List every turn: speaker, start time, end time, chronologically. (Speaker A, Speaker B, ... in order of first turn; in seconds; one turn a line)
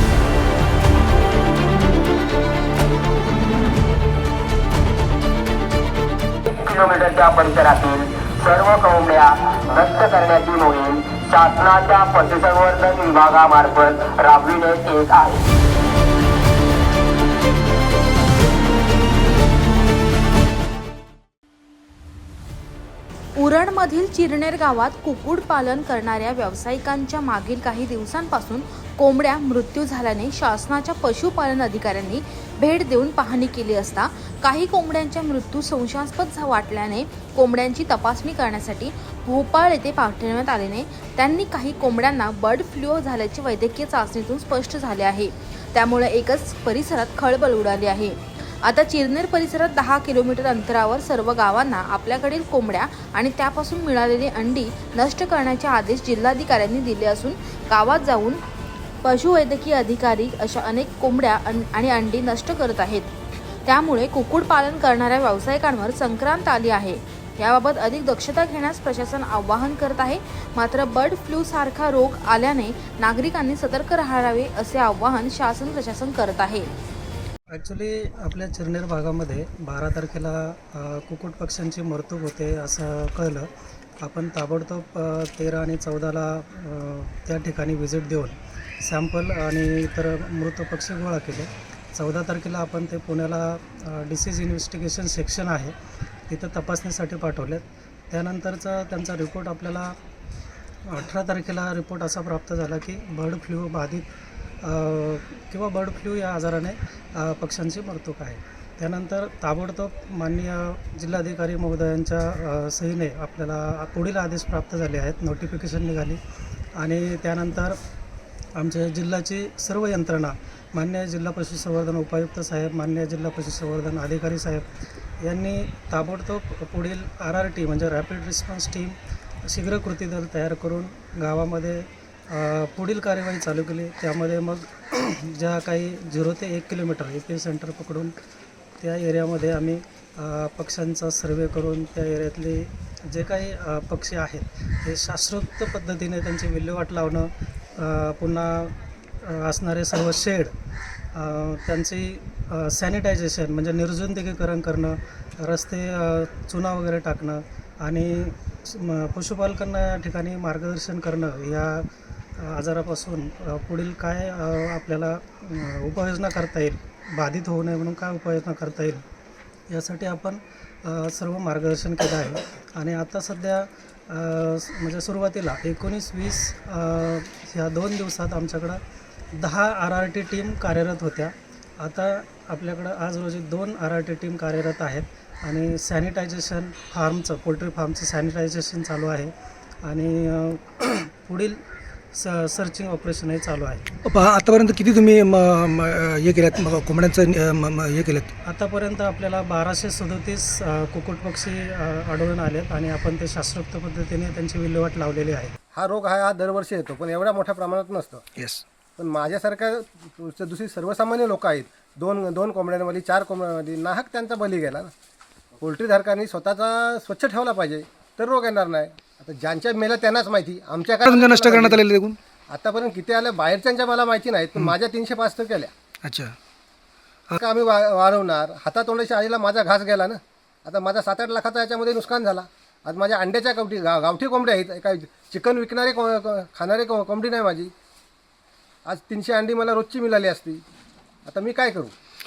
Speaker A: 6.5-15.4
Speaker B: 23.4-58.4
Speaker B: 59.0-63.1
Speaker B: 63.7-76.7
Speaker C: 77.5-83.5
Speaker C: 84.0-95.7
Speaker C: 96.3-100.0
Speaker C: 100.9-104.1
Speaker C: 104.6-116.2
Speaker C: 116.8-117.8
Speaker C: 118.6-124.7
Speaker C: 125.2-138.1
Speaker C: 138.8-150.5
Speaker C: 151.1-169.1
Speaker C: 169.7-178.8
Speaker C: 179.3-191.6
Speaker C: 192.1-193.8
Speaker D: 194.1-198.3
Speaker C: 198.4-205.5
Speaker E: 205.7-208.2
Speaker D: 208.4-208.6
Speaker E: 209.0-214.9
Speaker E: 215.6-221.8
Speaker D: 221.1-222.2
Speaker E: 222.5-225.7
Speaker D: 226.0-226.3
Speaker E: 227.4-237.7
Speaker E: 238.9-240.6
Speaker E: 241.3-241.9